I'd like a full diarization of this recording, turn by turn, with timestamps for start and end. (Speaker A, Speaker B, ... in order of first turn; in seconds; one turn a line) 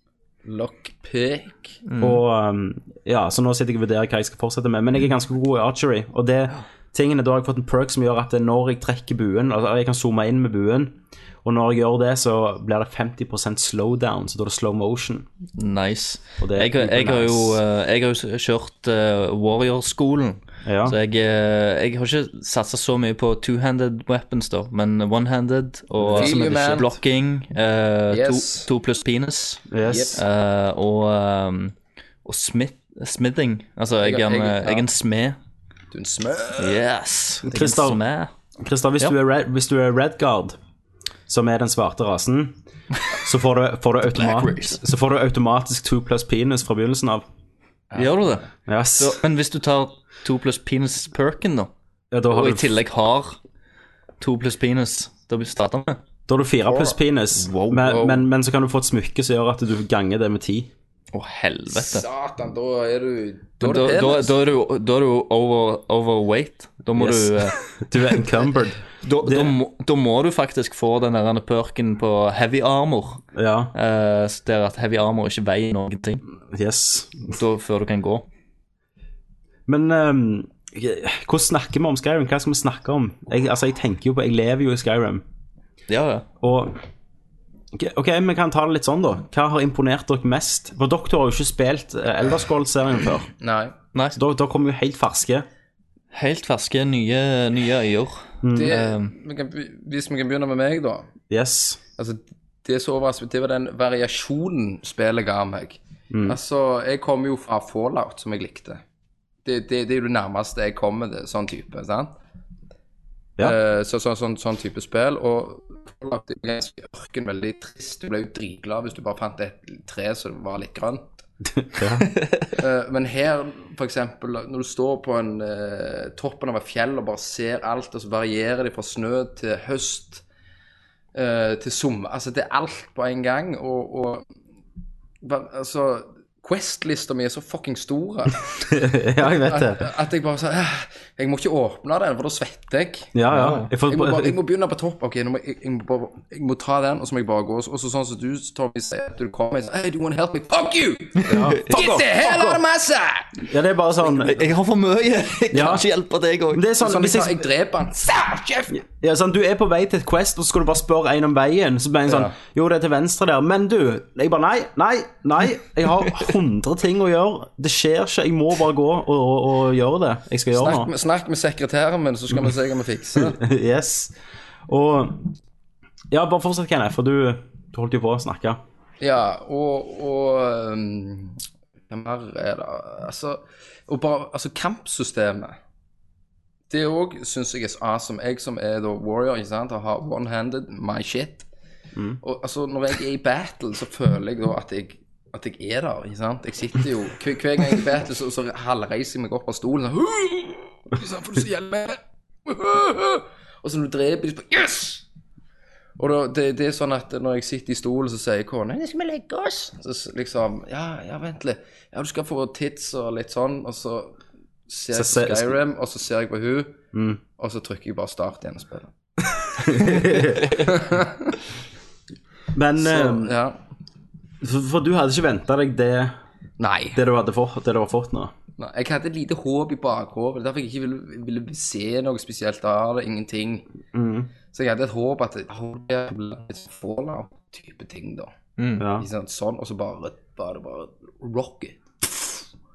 Speaker A: 0.5-1.8
Speaker B: 1.9-2.2
Speaker C: 2.0-15.3
Speaker B: 15.6-29.6
Speaker C: 16.4-17.6
Speaker C: 20.6-21.0
Speaker C: 26.0-26.8
Speaker A: 26.2-26.9
Speaker A: 28.1-28.7
Speaker C: 29.7-30.2
Speaker A: 29.9-30.2
Speaker B: 30.1-35.4
Speaker A: 34.0-34.9
Speaker A: 35.9-36.8
Speaker B: 36.6-38.3
Speaker C: 37.4-38.0
Speaker C: 38.6-40.6
Speaker C: 41.3-42.6
Speaker C: 43.2-47.3
Speaker B: 44.1-44.8
Speaker B: 48.0-51.7
Speaker C: 48.7-49.2
Speaker C: 52.1-52.8
Speaker B: 52.3-53.4
Speaker B: 54.2-56.0
Speaker C: 56.3-60.7
Speaker A: 56.7-57.0
Speaker B: 57.4-58.1
Speaker B: 61.1-62.1
Speaker A: 61.7-64.4
Speaker B: 63.6-67.6
Speaker C: 67.0-69.6
Speaker B: 69.0-73.2
Speaker C: 73.3-73.7
Speaker B: 73.7-76.2
Speaker C: 76.5-77.4
Speaker B: 77.3-78.2
Speaker C: 79.7-85.2
Speaker B: 85.9-86.3
Speaker C: 86.4-86.8
Speaker C: 87.7-93.3
Speaker A: 93.4-93.7
Speaker C: 94.2-95.5
Speaker B: 96.1-99.1
Speaker C: 98.4-98.8
Speaker A: 98.5-101.1
Speaker C: 101.3-101.8
Speaker A: 102.0-108.8
Speaker C: 106.1-106.4
Speaker A: 109.5-112.1
Speaker A: 113.4-121.0
Speaker C: 121.5-122.1
Speaker B: 122.1-122.5
Speaker A: 122.6-130.2
Speaker A: 131.1-134.2
Speaker A: 135.2-138.6
Speaker C: 138.7-139.9
Speaker A: 139.2-143.1
Speaker C: 143.1-144.4
Speaker B: 143.3-143.7
Speaker A: 143.9-153.4
Speaker C: 151.3-152.6
Speaker B: 151.3-151.8
Speaker C: 153.4-154.4
Speaker B: 154.2-156.6
Speaker C: 155.5-155.8
Speaker C: 156.5-157.5
Speaker A: 156.8-158.8
Speaker C: 158.7-170.9
Speaker A: 162.1-162.3
Speaker A: 170.5-173.4
Speaker C: 173.2-174.1
Speaker C: 174.7-175.3
Speaker C: 176.1-178.6
Speaker A: 179.0-181.4
Speaker A: 181.9-185.6
Speaker A: 186.7-191.5
Speaker A: 192.2-205.0
Speaker A: 206.0-216.8
Speaker C: 214.9-215.6
Speaker C: 216.9-217.2
Speaker A: 217.4-218.9
Speaker C: 219.6-220.6
Speaker A: 220.6-221.3
Speaker C: 222.5-223.4
Speaker A: 222.8-223.6
Speaker C: 224.4-226.2
Speaker A: 226.6-227.0
Speaker C: 226.9-228.3
Speaker A: 228.6-233.7
Speaker C: 233.9-234.3
Speaker A: 234.5-238.3
Speaker B: 238.6-238.8
Speaker C: 238.8-239.1
Speaker A: 239.0-242.4